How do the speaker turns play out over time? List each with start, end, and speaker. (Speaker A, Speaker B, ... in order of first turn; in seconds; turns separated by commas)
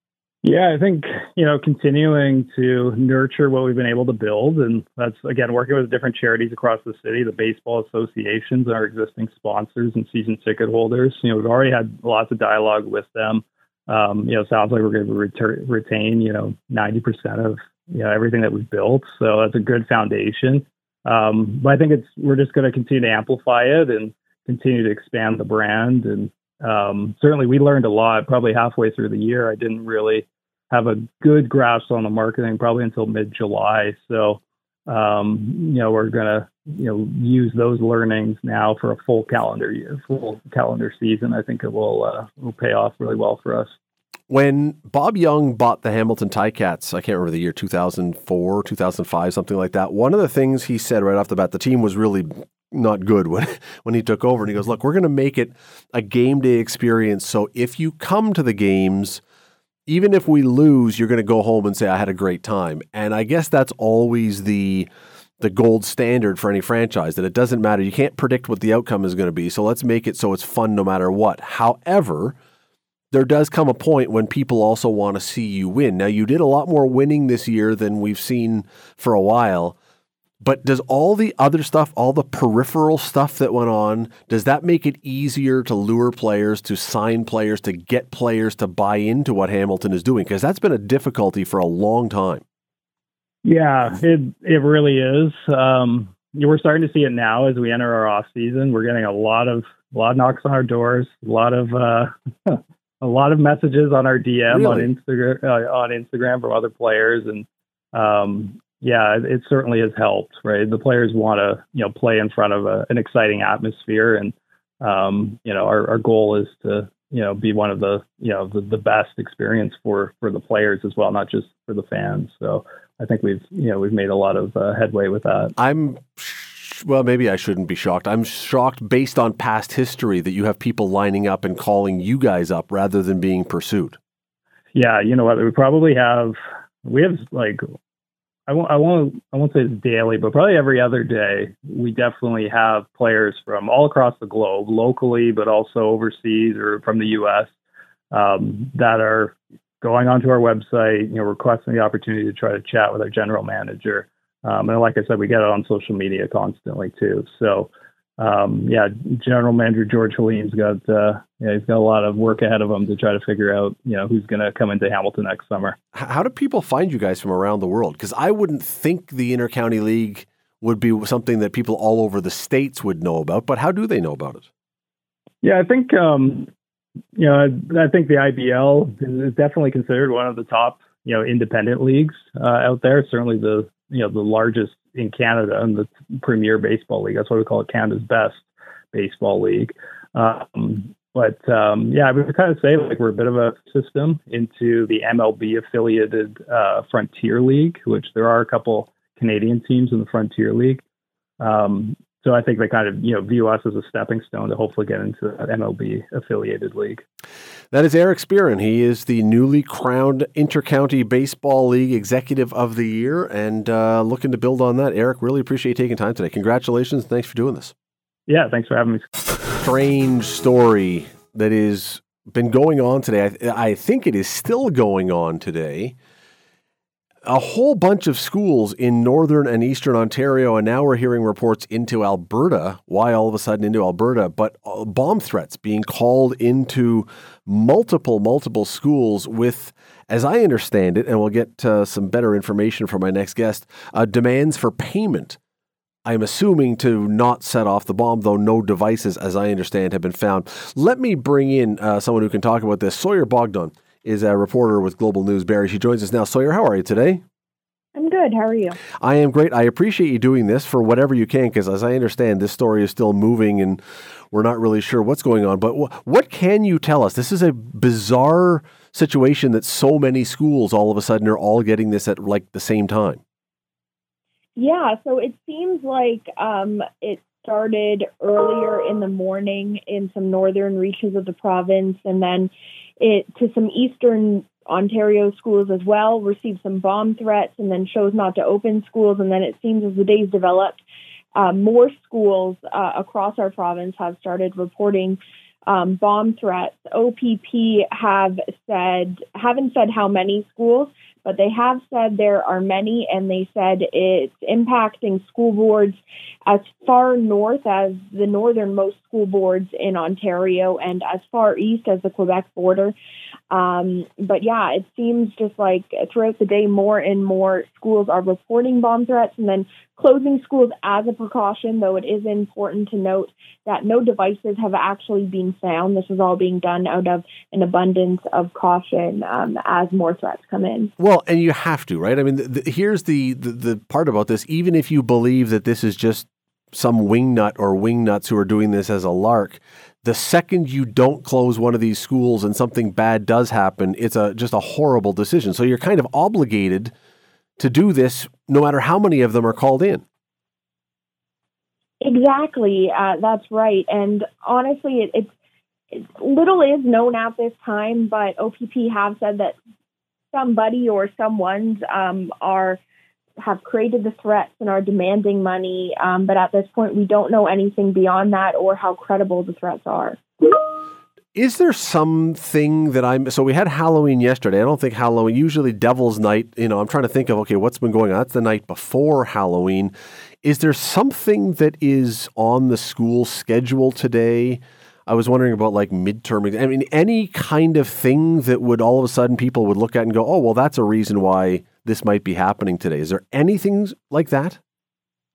Speaker A: 0.4-43.7, Speaker B: 44.3-59.2, Speaker B: 59.9-64.9, Speaker B: 65.4-72.3, Speaker B: 73.1-79.8, Speaker B: 80.4-92.4, Speaker A: 93.4-125.5, Speaker B: 104.5-104.9, Speaker B: 125.6-134.0, Speaker A: 134.7-137.6, Speaker A: 138.5-147.5, Speaker A: 148.1-165.8, Speaker B: 165.9-174.4, Speaker A: 175.4-176.5, Speaker A: 177.2-200.8, Speaker A: 201.4-207.0, Speaker B: 207.7-217.7, Speaker A: 218.3-219.1, Speaker B: 219.6-225.9, Speaker B: 227.2-245.4, Speaker B: 246.0-257.2, Speaker C: 257.9-258.8, Speaker B: 259.0-273.2, Speaker C: 274.6-290.8, Speaker C: 291.4-312.9, Speaker C: 313.5-330.9, Speaker B: 331.0-346.9, Speaker B: 347.6-350.0, Speaker C: 352.0-355.3, Speaker C: 355.9-359.6, Speaker C: 360.3-362.8, Speaker C: 363.4-370.2, Speaker B: 371.3-394.6